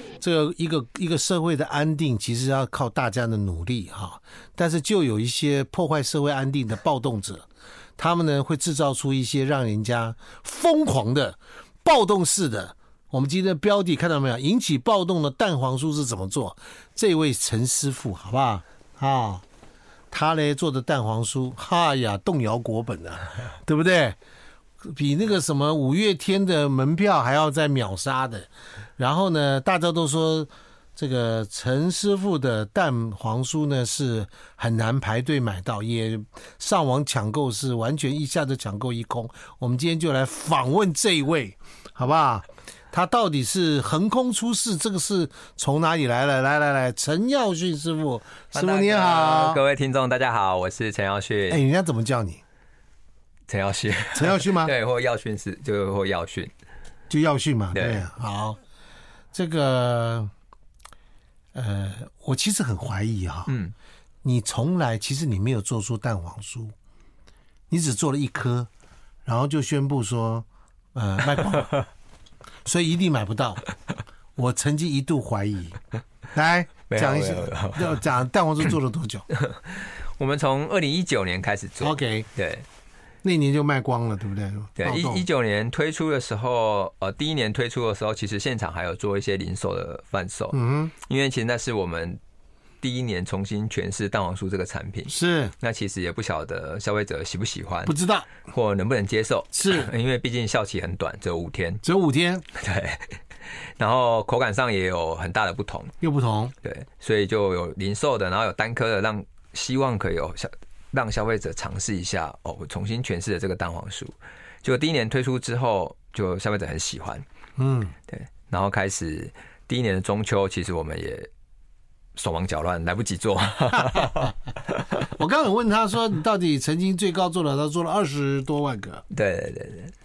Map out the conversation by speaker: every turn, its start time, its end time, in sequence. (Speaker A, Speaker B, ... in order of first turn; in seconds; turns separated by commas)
Speaker A: 0.2-7.5, Speaker A: 8.0-19.4, Speaker A: 20.1-24.2, Speaker A: 24.8-49.6, Speaker B: 48.5-51.6, Speaker A: 51.5-52.4, Speaker B: 53.5-56.5, Speaker A: 54.1-54.7, Speaker A: 57.1-58.6, Speaker B: 57.7-58.0, Speaker A: 59.3-60.3, Speaker A: 61.5-63.5, Speaker B: 63.5-63.7, Speaker A: 64.2-66.7, Speaker A: 67.7-68.7, Speaker A: 69.2-71.8, Speaker A: 72.6-73.6, Speaker A: 74.3-75.8, Speaker A: 76.3-79.3, Speaker B: 76.9-78.0, Speaker B: 79.3-82.7, Speaker A: 81.8-82.3, Speaker A: 83.2-85.2, Speaker B: 84.8-92.2, Speaker A: 90.5-90.9, Speaker B: 92.8-101.8, Speaker A: 95.1-95.5, Speaker A: 97.8-98.3, Speaker A: 99.5-99.9, Speaker A: 101.8-102.4, Speaker B: 102.5-105.9, Speaker A: 106.0-106.5, Speaker B: 106.6-117.2, Speaker A: 117.6-117.9, Speaker B: 118.1-121.3, Speaker B: 122.1-124.3, Speaker A: 123.9-124.2, Speaker A: 125.0-129.0, Speaker B: 129.1-129.9